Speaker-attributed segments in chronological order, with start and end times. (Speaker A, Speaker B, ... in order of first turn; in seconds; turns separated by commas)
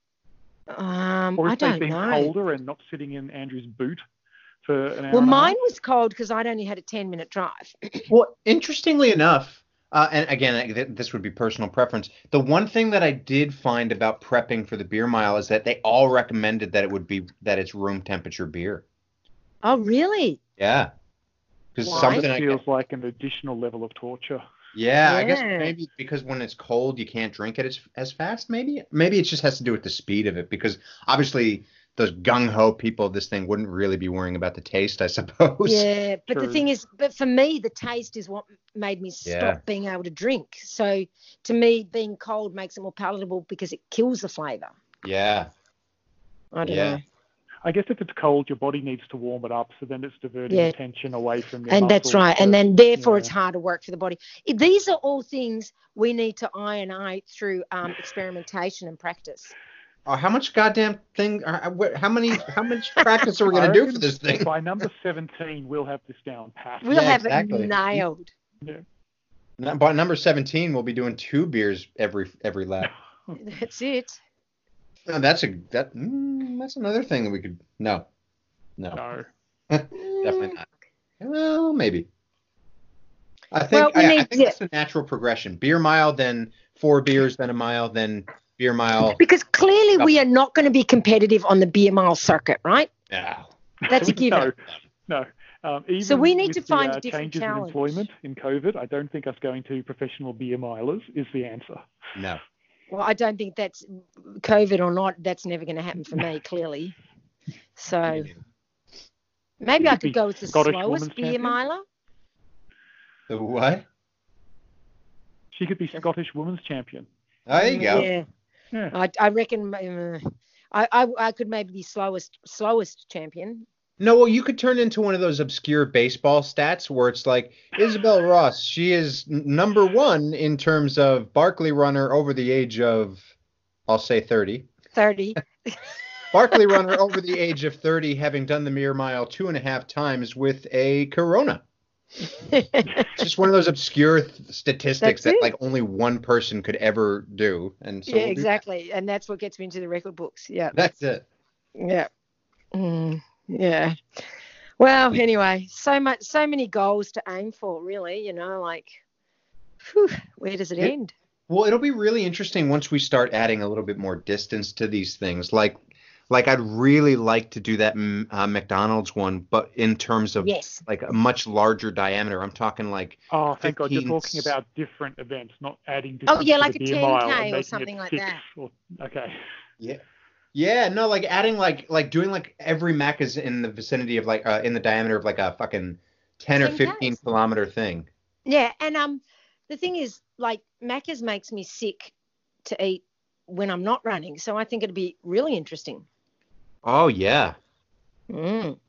Speaker A: 0.7-2.3, Speaker B: 1.4-4.0, Speaker B: 4.6-5.5, Speaker A: 5.1-8.1, Speaker C: 8.1-18.8, Speaker A: 19.6-20.4, Speaker C: 20.6-20.9, Speaker C: 21.7-22.6, Speaker B: 21.9-24.4, Speaker A: 21.9-22.3, Speaker C: 24.7-35.9, Speaker A: 25.0-25.7, Speaker A: 35.6-44.7, Speaker B: 36.3-36.6, Speaker C: 39.2-39.6, Speaker C: 45.0-45.5, Speaker A: 46.5-47.0, Speaker C: 46.6-47.0, Speaker B: 47.6-53.3, Speaker A: 51.7-59.5, Speaker C: 60.0-64.5, Speaker B: 63.5-67.0, Speaker A: 66.8-68.3, Speaker C: 66.9-68.0, Speaker C: 69.6-72.9, Speaker A: 73.4-74.2, Speaker C: 75.1-78.0, Speaker B: 78.9-79.3, Speaker C: 79.7-80.6, Speaker A: 79.9-80.6, Speaker C: 81.2-82.0, Speaker C: 83.5-89.2, Speaker A: 83.7-84.6, Speaker A: 89.2-92.9, Speaker C: 93.1-93.5, Speaker A: 93.9-94.5, Speaker B: 93.9-101.8, Speaker A: 96.0-97.8, Speaker C: 102.2-102.4, Speaker A: 102.9-106.9, Speaker A: 107.8-108.3, Speaker C: 108.1-108.4, Speaker A: 109.6-111.8, Speaker B: 109.8-111.5, Speaker C: 113.3-113.8, Speaker B: 115.5-117.1, Speaker C: 117.5-118.1, Speaker A: 117.5-118.2, Speaker A: 118.9-123.6, Speaker C: 124.0-133.3, Speaker C: 133.9-134.7, Speaker A: 134.9-135.9, Speaker C: 136.3-141.6, Speaker A: 136.5-136.8, Speaker A: 142.3-143.1, Speaker C: 143.1-148.6, Speaker A: 145.0-145.5, Speaker A: 148.1-150.8, Speaker C: 150.7-151.2, Speaker A: 151.8-152.1, Speaker A: 152.7-153.9, Speaker A: 154.8-159.0, Speaker A: 159.8-161.1, Speaker C: 161.5-174.5, Speaker A: 170.4-170.8, Speaker B: 173.3-179.4, Speaker A: 176.3-178.4, Speaker C: 180.5-188.1, Speaker A: 186.6-187.2, Speaker A: 188.4-192.1, Speaker A: 192.6-196.0, Speaker C: 196.8-197.6, Speaker A: 198.3-198.8